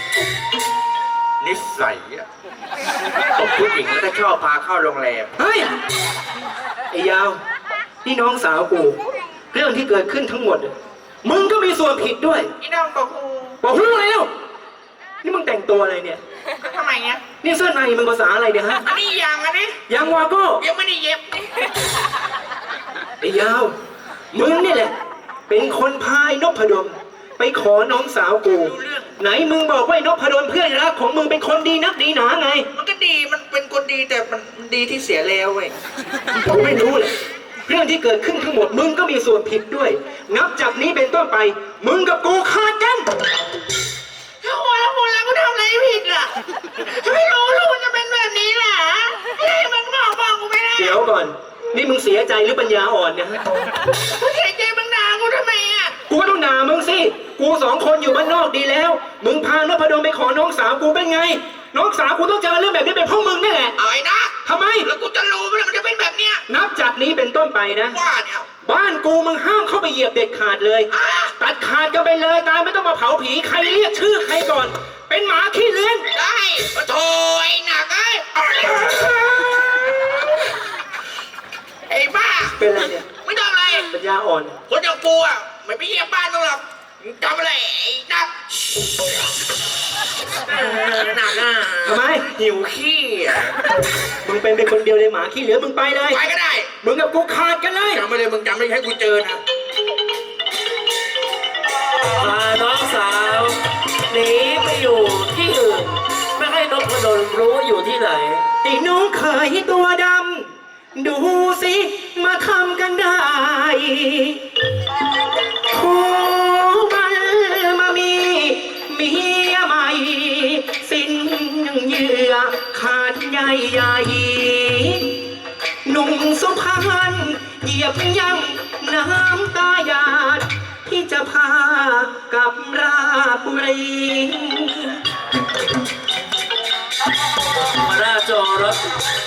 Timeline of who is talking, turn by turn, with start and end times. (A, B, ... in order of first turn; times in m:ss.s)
0:01.4-0:02.2 A
0:03.3-0:05.3 A
0:05.4-0:05.7 B
0:06.9-0:07.4 B
0:08.0-0:09.0 B
0:09.5-0:12.5 B
0:12.6-0:13.6 A
0:13.6-0:14.3 B
0:15.2-0:16.2 B
0:16.6-0:17.2 A
0:17.4-0:18.8 B
0:18.8-0:19.8 A
0:19.9-0:20.6 B
0:20.6-0:21.7 A
0:23.2-0:23.7 B
0:24.3-0:24.9 B
0:25.5-0:32.7 B
0:28.5-0:29.1 A
0:32.7-0:35.8 A
0:36.4-0:37.1 B
0:37.7-0:43.1 B
0:44.4-0:51.0 A
0:50.8-0:53.4 B
0:53.9-0:56.0 A
0:56.1-1:03.8 B
1:03.8-1:06.4 A
1:04.4-1:04.9 B
1:06.5-1:08.0 B
1:07.9-1:08.5 A
1:08.6-1:16.0 B
1:10.9-1:11.3 A
1:16.1-1:20.5 A
1:21.9-1:23.9 A
1:22.6-1:23.1 B
1:23.9-1:24.6 B
1:24.7-1:29.0 A
1:30.4-1:33.6 A
1:31.8-1:32.4 B
1:34.2-1:36.2 B
1:36.1-1:36.7 A
1:36.8-1:38.0 B
1:37.9-1:39.4 A
1:42.2-1:43.6 C
1:44.1-1:48.5 C
1:48.6-1:54.4 B
1:55.7-2:05.2 B
2:05.8-2:15.0 B
2:17.8-2:18.8 C